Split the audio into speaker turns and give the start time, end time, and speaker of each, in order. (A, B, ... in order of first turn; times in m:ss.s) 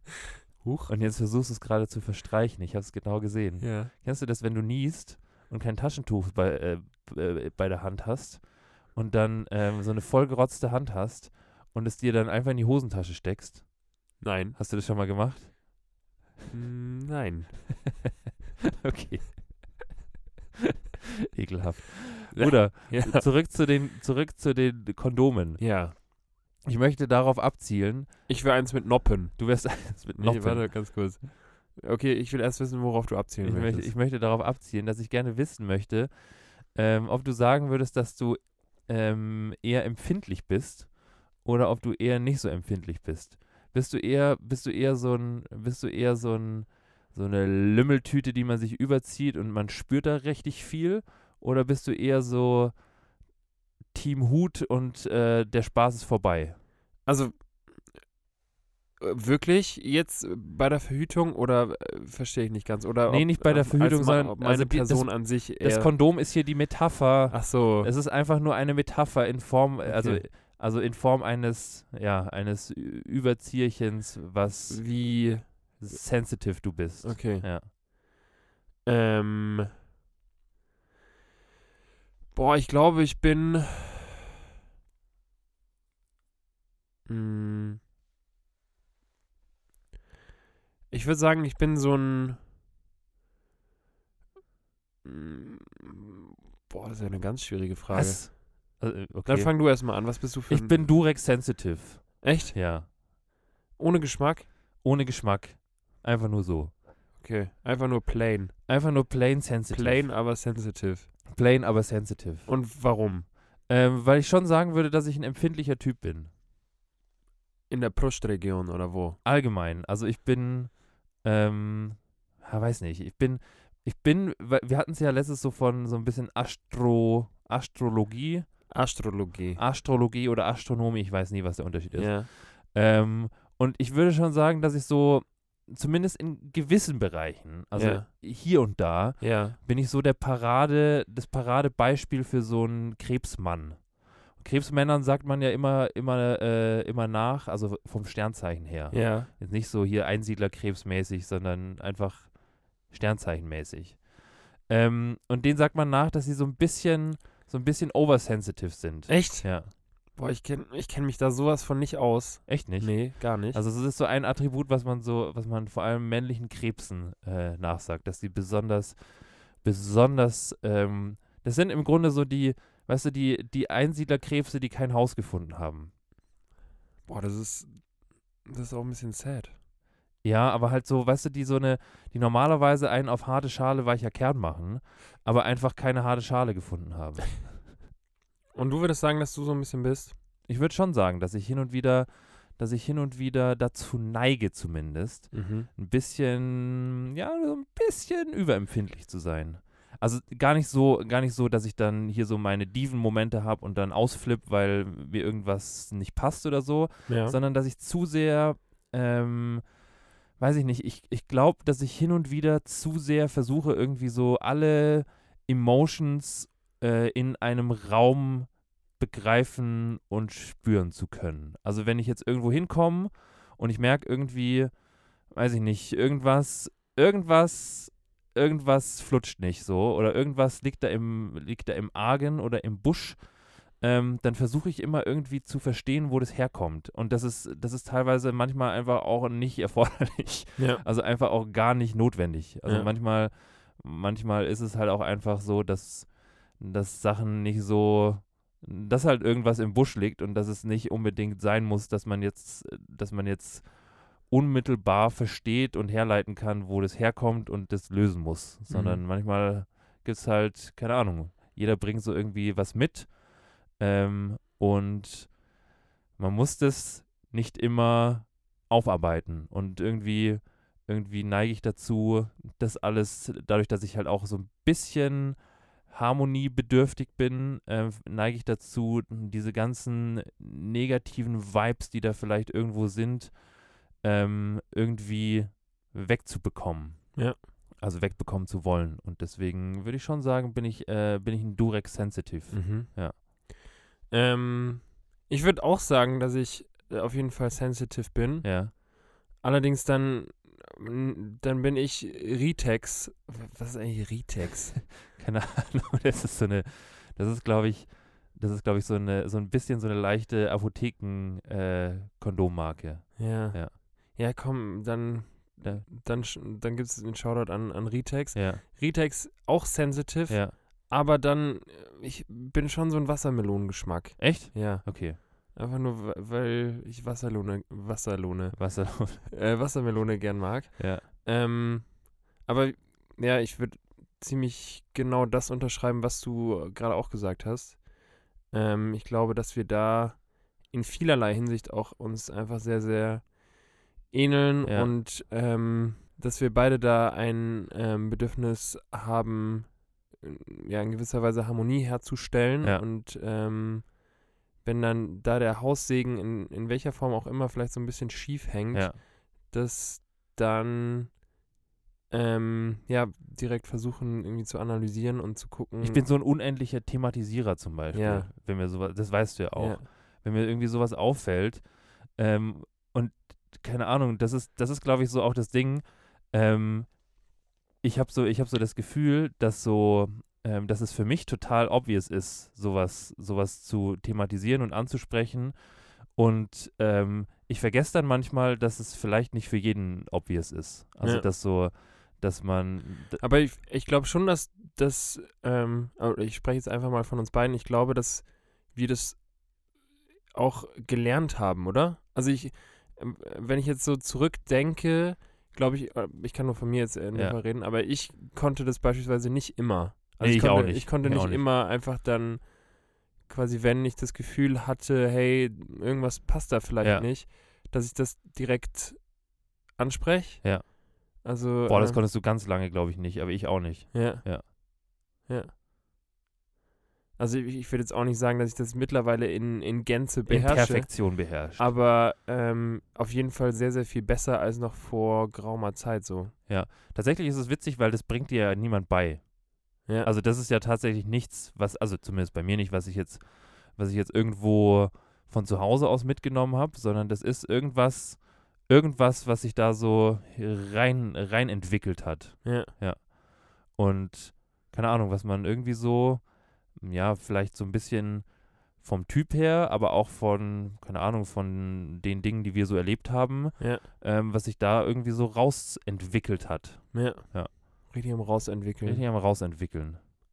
0:00.6-0:00.9 A
0:00.9-0:13.7 B
0:03.6-0:03.9 A
0:14.2-0:14.6 A
0:14.6-0:15.6 B
0:16.5-0:17.5 A
0:18.8-0:20.0 B
0:21.3-0:25.6 B
0:22.3-0:23.2 A
0:25.6-0:25.9 A
0:26.6-0:28.2 B
0:28.3-0:33.9 A
0:29.4-0:31.2 B
0:33.4-0:52.8 B
0:53.9-0:56.6 B
0:57.0-0:57.9 A
0:59.0-1:05.9 A
1:03.1-1:17.7 B
1:07.3-1:07.9 A
1:09.8-1:10.2 A
1:14.7-1:15.9 A
1:17.0-1:17.5 A
1:18.8-1:19.7 A
1:22.3-1:24.2 A
1:27.0-1:27.8 A
1:30.9-1:32.4 A
1:35.0-1:38.5 A
1:37.9-1:42.9 B
1:39.2-1:40.9 A
1:42.2-1:42.6 A
1:43.8-1:44.5 A
1:44.8-1:46.8 B
1:47.2-1:48.6 A
1:48.7-1:50.1 B
1:49.7-1:51.1 A
1:51.3-1:52.5 B
1:52.5-1:53.3 A
1:53.6-1:56.3 B
1:57.7-1:59.2 A
1:59.2-2:08.6 B
2:08.7-2:09.6 A
2:09.6-2:34.1 B
2:11.9-2:12.3 A
2:17.8-2:18.1 A
2:19.2-2:19.6 A
2:28.9-2:29.3 A
2:34.6-2:39.7 B
2:39.1-2:43.6 A
2:42.5-2:55.9 B
2:57.1-2:57.8 A
2:58.4-2:59.5 A
3:00.2-3:07.7 B
3:08.5-3:10.1 A
3:10.5-3:29.7 B
3:15.3-3:15.7 A
3:27.1-3:27.4 A
3:30.4-3:44.7 B
3:45.3-4:25.4 B
4:00.6-4:00.8 A
4:18.7-4:19.0 A
4:26.2-4:43.4 B
4:44.0-4:47.2 B
4:47.7-4:53.2 B
4:52.5-4:53.5 A
4:54.1-4:58.8 A
4:58.4-4:58.7 B
4:59.4-5:04.8 A
5:05.0-5:13.7 B
5:13.2-5:54.0 A
5:18.3-5:18.6 B
5:20.3-5:20.5 B
5:24.2-5:25.2 B
5:28.5-5:29.2 B
5:30.8-5:31.0 B
5:44.6-5:44.9 B
5:54.6-6:01.2 A
5:58.7-5:59.0 B
6:02.1-6:06.0 A
6:05.8-6:17.0 B
6:07.9-6:08.3 A
6:09.6-6:09.8 A
6:17.8-6:25.6 B
6:26.1-6:33.2 B
6:31.0-6:31.3 A
6:33.2-6:39.2 A
6:40.3-6:59.2 A
6:50.2-6:51.4 B
6:56.8-6:57.1 B
6:59.7-7:00.5 A
7:00.4-7:04.4 B
7:01.2-7:02.0 A
7:03.9-7:04.6 A
7:05.2-7:05.5 A
7:07.2-7:16.3 A
7:10.3-7:11.6 B
7:16.5-7:47.5 B
7:19.8-7:20.1 A
7:32.4-7:32.7 A
7:43.6-7:43.8 A
7:46.9-7:49.0 A
7:48.8-7:50.0 B